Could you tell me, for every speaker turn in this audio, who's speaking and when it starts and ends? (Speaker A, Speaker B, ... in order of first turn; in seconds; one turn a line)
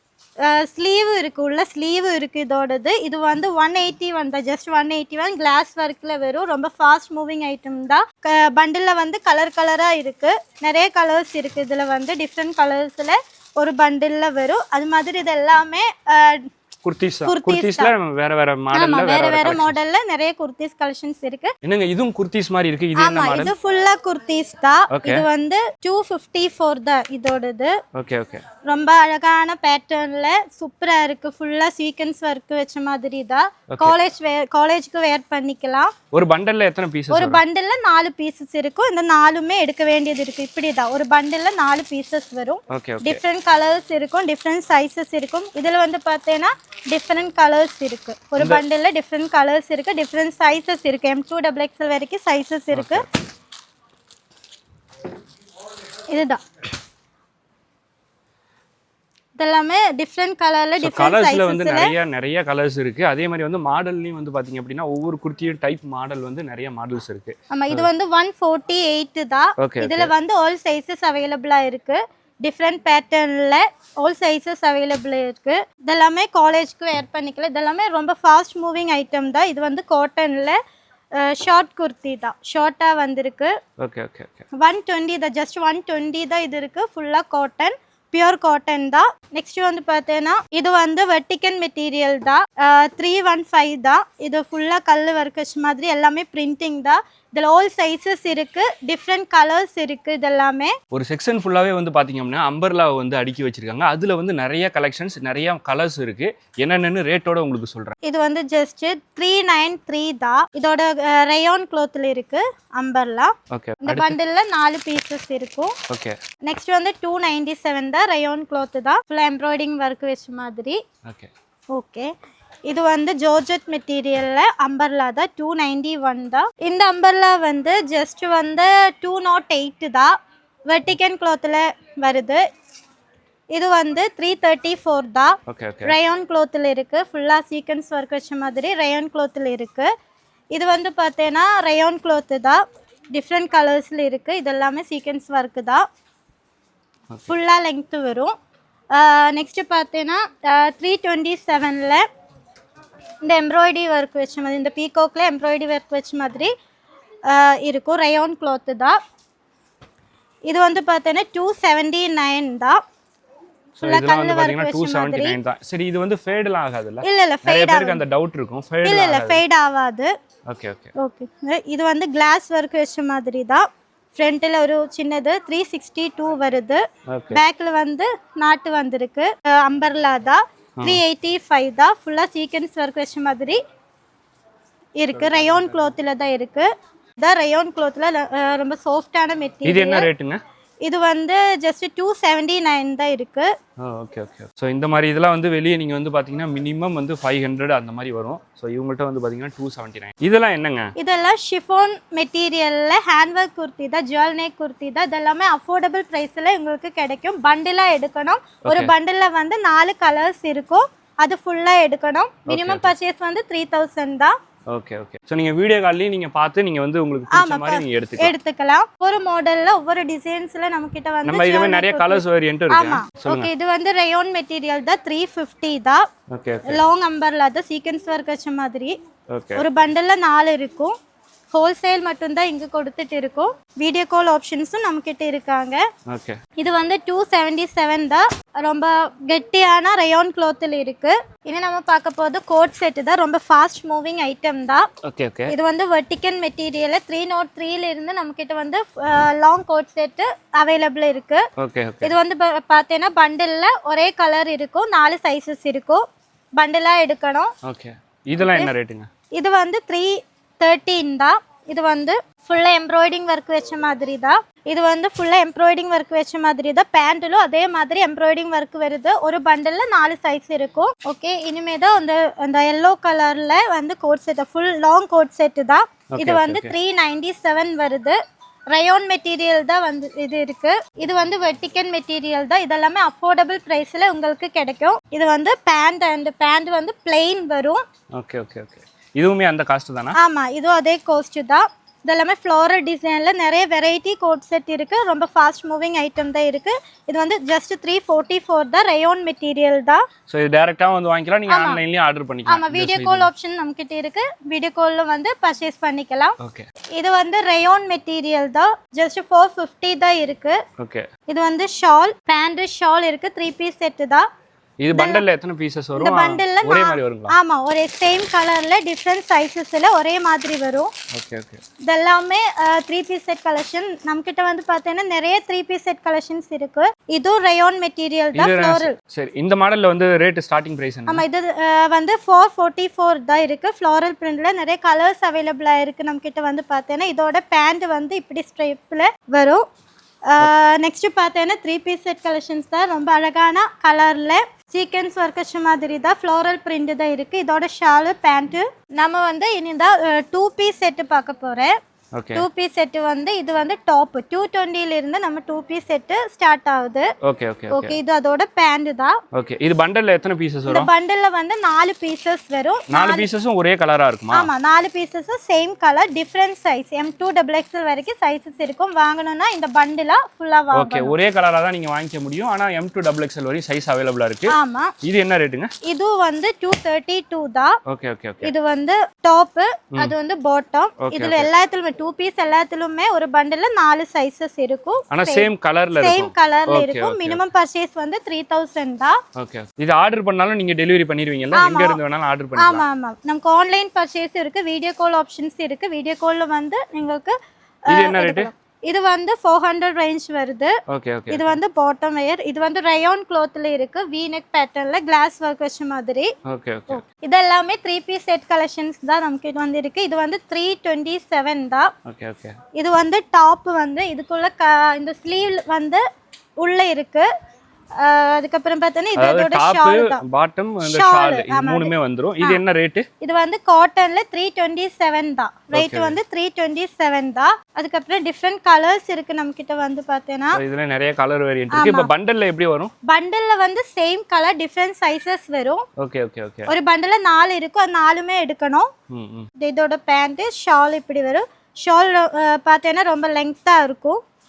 Speaker A: 0.4-16.5
Speaker B: 16.8-19.8
Speaker A: 17.2-17.9
Speaker A: 18.7-21.5
Speaker B: 21.6-23.5
Speaker A: 23.0-27.7
Speaker B: 24.9-25.2
Speaker B: 27.9-28.4
Speaker A: 28.7-35.9
Speaker B: 33.7-34.0
Speaker B: 36.1-37.4
Speaker A: 37.1-53.0
Speaker B: 42.7-43.2
Speaker B: 48.4-48.6
Speaker B: 52.7-53.0
Speaker A: 56.1-56.4
Speaker A: 59.4-61.9
Speaker B: 60.8-67.9
Speaker A: 67.5-80.6
Speaker B: 69.6-70.1
Speaker A: 81.2-83.5
Speaker B: 83.8-84.5
Speaker A: 84.6-100.7
Speaker B: 100.9-107.9
Speaker A: 108.0-115.8
Speaker B: 113.5-114.2
Speaker B: 115.9-116.1
Speaker A: 116.5-120.8
Speaker B: 121.0-121.3
Speaker A: 121.7-122.1
Speaker A: 122.7-130.1
Speaker A: 130.7-132.4
Speaker A: 133.5-139.9
Speaker B: 135.5-135.9
Speaker A: 140.5-142.6
Speaker A: 143.1-145.8
Speaker A: 147.3-148.3
Speaker A: 148.9-152.0
Speaker A: 153.2-156.5
Speaker A: 157.3-159.0
Speaker A: 160.4-162.8
Speaker B: 163.8-169.4
Speaker A: 163.8-165.4
Speaker A: 167.0-168.0
Speaker A: 168.8-170.1
Speaker B: 170.5-170.9
Speaker A: 171.0-183.6
Speaker B: 177.1-177.4
Speaker B: 180.8-181.0
Speaker A: 185.0-190.1
Speaker B: 185.2-185.7
Speaker B: 189.6-190.4
Speaker A: 190.8-193.5
Speaker B: 193.8-200.9
Speaker A: 201.0-214.3
Speaker B: 208.6-208.9
Speaker B: 212.5-212.9
Speaker B: 214.7-218.3
Speaker A: 217.3-226.0
Speaker B: 221.2-223.5
Speaker B: 226.3-226.8
Speaker A: 226.7-228.9
Speaker B: 229.3-229.6
Speaker A: 229.6-230.9
Speaker A: 231.5-235.8
Speaker B: 236.1-236.4
Speaker A: 236.6-244.9
Speaker B: 245.0-245.5
Speaker A: 245.5-251.4
Speaker B: 251.6-252.1
Speaker A: 252.0-256.0
Speaker A: 256.6-257.5
Speaker B: 257.6-259.1
Speaker A: 258.4-258.7
Speaker A: 259.4-278.2
Speaker B: 276.1-276.7
Speaker A: 278.7-287.8
Speaker B: 288.1-290.2
Speaker A: 290.1-300.0
Speaker B: 300.3-303.3
Speaker A: 301.5-301.8
Speaker A: 302.5-306.4
Speaker B: 306.4-306.7
Speaker A: 307.0-310.6
Speaker B: 310.8-311.1
Speaker A: 311.3-314.2
Speaker B: 314.8-317.3
Speaker A: 314.9-315.2
Speaker A: 316.0-320.9
Speaker B: 321.1-321.6
Speaker A: 321.9-328.9
Speaker B: 328.3-331.2
Speaker A: 331.1-339.6
Speaker A: 340.3-351.7
Speaker B: 352.1-352.4
Speaker A: 352.3-357.1
Speaker B: 357.2-357.9
Speaker A: 357.7-359.1
Speaker B: 359.3-360.9
Speaker A: 360.7-363.2
Speaker B: 362.9-364.5
Speaker A: 364.3-371.1
Speaker B: 370.7-375.7
Speaker A: 374.5-374.9
Speaker A: 375.8-377.8
Speaker B: 377.9-378.5
Speaker A: 378.4-389.2
Speaker B: 381.0-381.5
Speaker B: 385.1-387.4
Speaker B: 389.4-392.8
Speaker A: 391.5-392.0
Speaker A: 392.6-397.3
Speaker B: 397.9-398.5
Speaker A: 397.9-400.7
Speaker B: 400.9-401.6
Speaker A: 401.3-406.3
Speaker B: 406.5-407.0
Speaker A: 406.9-411.9
Speaker B: 412.1-412.6
Speaker A: 412.7-416.0
Speaker A: 416.6-417.3
Speaker A: 418.0-420.2
Speaker B: 419.1-423.1
Speaker A: 420.8-422.6
Speaker A: 423.2-430.6
Speaker B: 425.7-426.2
Speaker B: 430.5-432.9
Speaker A: 431.7-432.1
Speaker A: 433.1-435.8
Speaker B: 436.0-436.7
Speaker A: 436.7-438.9
Speaker B: 439.1-439.5
Speaker A: 439.6-444.2